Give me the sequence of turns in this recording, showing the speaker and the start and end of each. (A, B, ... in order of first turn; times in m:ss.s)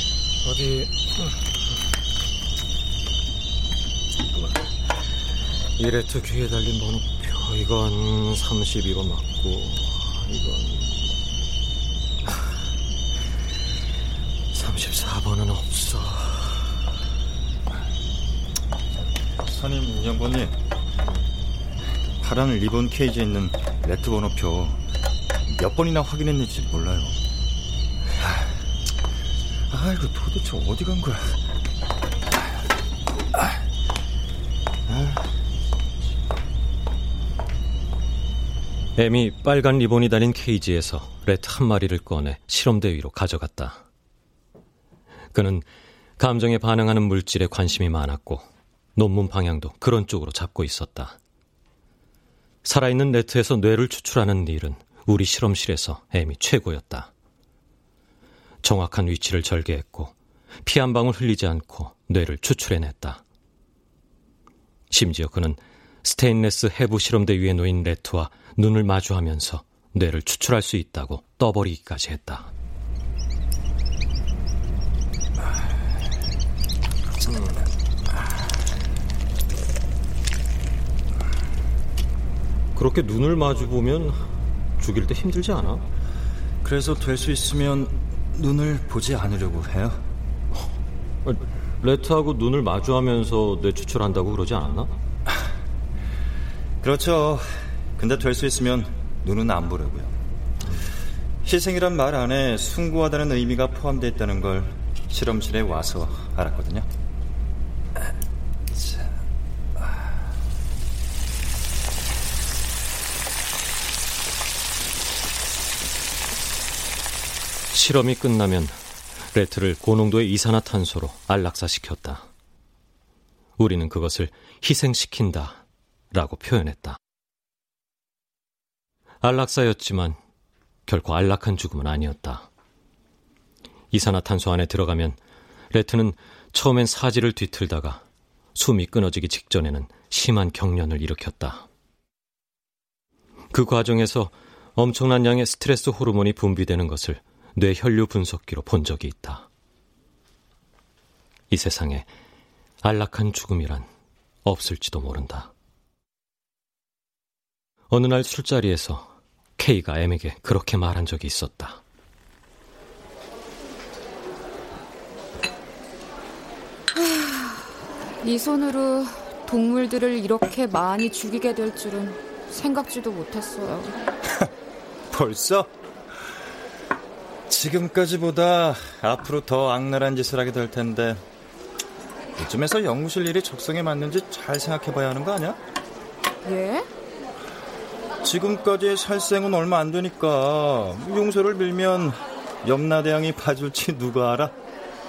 0:00.4-0:01.4 A
0:04.3-0:04.7 A
0:05.8-0:11.2 A
0:14.5-0:16.8 A
0:19.4-0:20.6 B
0:22.2-0:24.8 B
0:25.5-0:27.2 B
0:29.7-0:31.4 B
0:34.9-0:35.2 B
0:39.0-0:43.8 A
0:45.3-0:45.7 A
0:46.2-0:51.2 A
0:52.6-0:57.1 A
0:58.6-1:03.2 A
1:04.9-1:12.5 A
1:17.3-1:17.6 A
1:22.8-1:25.8 A
1:26.6-1:30.0 B
1:31.2-1:34.9 A
1:36.8-1:40.1 B
1:41.4-1:46.9 B
1:57.7-1:58.8 A
1:59.3-2:02.3 A
2:03.6-2:07.0 A
2:09.2-2:10.2 A
2:10.9-2:12.5 A
2:13.9-2:15.2 A
2:15.7-2:21.7 A
2:23.5-2:29.5 A
2:31.5-2:32.1 A
2:32.8-2:33.9 A
2:34.4-2:35.5 A
2:37.9-2:41.8 A
2:47.0-2:47.7 C
2:48.2-2:54.0 C
2:55.1-2:55.7 B
2:57.5-3:01.2 B
3:02.4-3:05.6 B
3:06.4-3:06.9 C
3:08.2-3:14.5 B